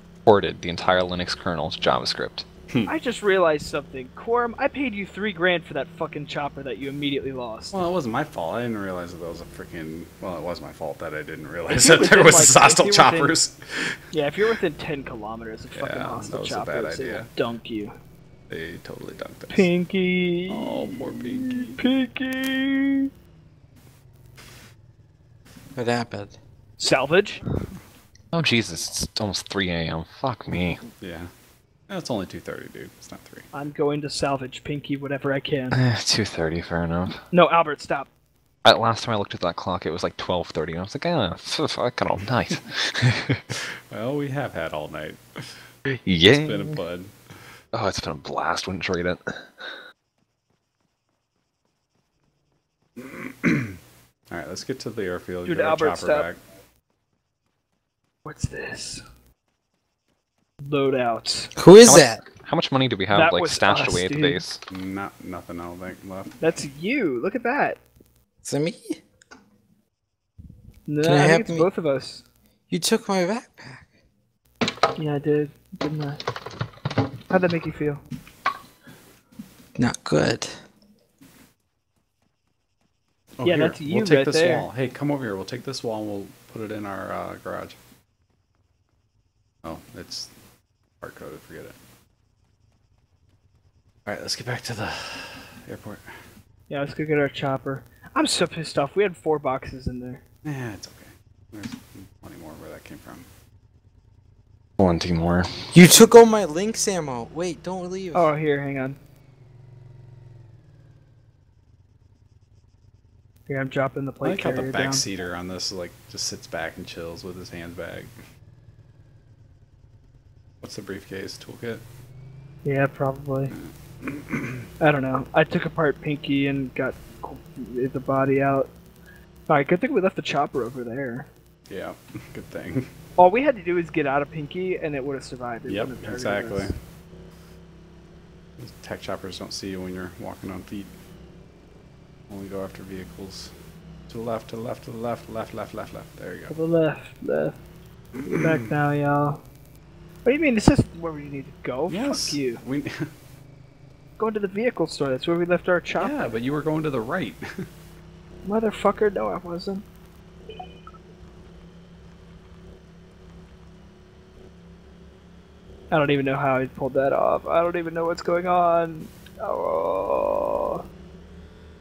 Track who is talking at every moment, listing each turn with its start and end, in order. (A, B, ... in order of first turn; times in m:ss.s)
0:00.2-0:02.4 A
0:02.9-0:07.8 B
0:07.7-0:13.9 C
0:11.7-0:13.4 B
0:14.1-0:17.9 B
0:15.7-0:17.3 C
0:18.5-0:19.7 C
0:19.5-0:23.1 B
0:20.5-0:21.8 C
0:25.8-0:26.4 D
0:26.8-0:27.4 B
0:28.3-0:30.8 A
0:31.0-0:31.3 C
0:31.9-0:33.5 C
0:33.5-0:35.8 B
0:35.7-0:37.2 A
0:37.3-0:38.1 B
0:38.6-0:43.4 A
0:43.9-0:45.5 C
0:45.9-0:46.8 A
0:46.3-0:47.1 C
0:47.7-0:49.7 A
0:53.0-0:53.7 C
0:54.3-0:56.4 C
0:55.4-0:56.3 B
0:58.2-0:59.0 B
1:00.6-1:01.5 B
1:01.6-1:02.2 D
1:01.8-1:04.6 A
1:03.1-1:04.4 B
1:04.7-1:06.5 C
1:06.4-1:07.8 B
1:08.4-1:09.0 D
1:10.9-1:12.2 B
1:11.0-1:11.7 D
1:12.7-1:13.8 D
1:15.0-1:16.2 B
1:17.3-1:18.0 B
1:19.8-1:20.6 D
1:23.4-1:27.8 C
1:23.4-1:24.7 B
1:29.6-1:30.3 C
1:31.0-1:31.8 C
1:34.0-1:36.0 C
1:36.7-1:40.2 B
1:40.4-1:43.3 C
1:44.8-1:45.5 A
1:45.7-1:48.3 D
1:48.1-1:49.0 B
1:53.5-1:55.0 B
1:54.2-1:58.1 C
2:00.6-2:01.8 C
2:02.6-2:03.5 B
2:04.0-2:04.6 C
2:04.8-2:08.7 B
2:09.5-2:11.3 B
2:11.7-2:12.9 C
2:13.2-2:16.7 B
2:15.7-2:16.7 C
2:18.6-2:20.9 C
2:22.3-2:23.5 C
2:24.1-2:26.5 C
2:26.5-2:27.6 B
2:28.2-2:28.6 C
2:28.2-2:29.4 B
2:30.2-2:32.6 B
2:31.9-2:33.1 C
2:34.2-2:36.3 B
2:35.9-2:37.4 C
2:38.4-2:39.8 B
2:45.9-2:50.8 B